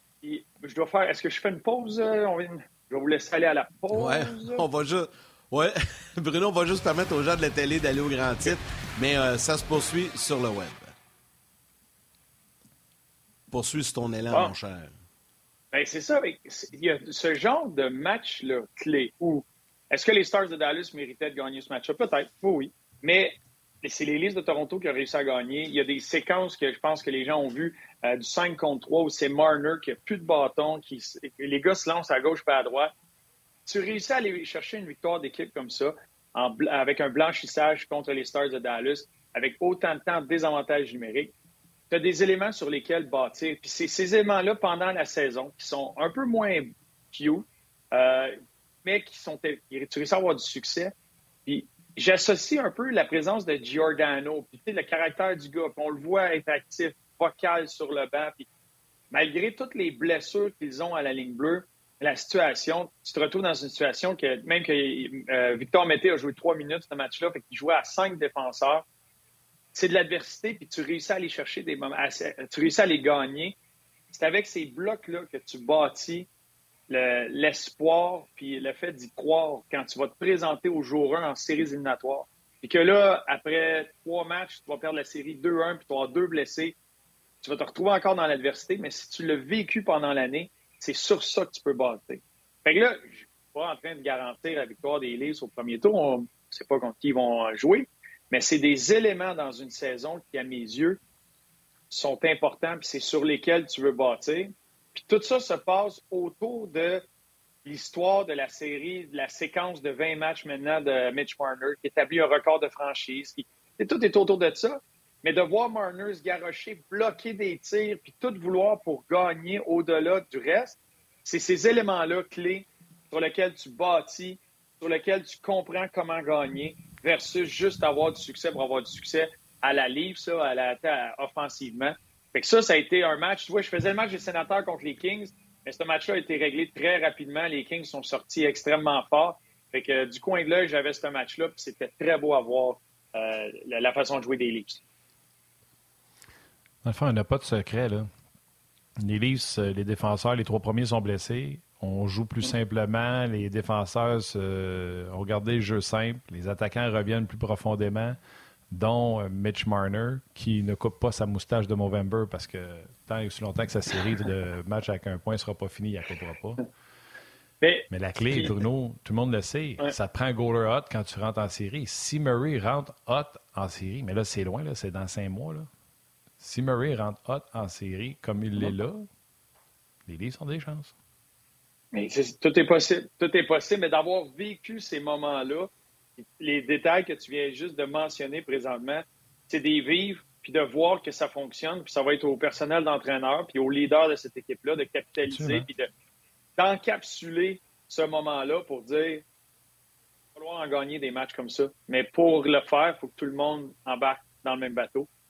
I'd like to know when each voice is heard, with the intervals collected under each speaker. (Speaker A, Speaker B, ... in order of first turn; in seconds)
Speaker A: 0.2-4.6, 15.7-32.9, 33.6-41.3, 41.9-50.9, 51.5-58.4, 59.1-68.8, 69.7-73.5, 74.1-76.3, 76.9-86.7, 87.4-101.0, 101.9-107.0, 107.6-144.8, 167.6-168.6, 181.9-195.9, 196.6-199.2, 200.3-205.1
Speaker B: 3.9-10.9, 13.5-14.9
Speaker C: 146.8-148.1, 149.0-158.2, 158.7-166.6, 167.9-175.7, 176.4-179.1, 180.1-180.9, 195.3-195.7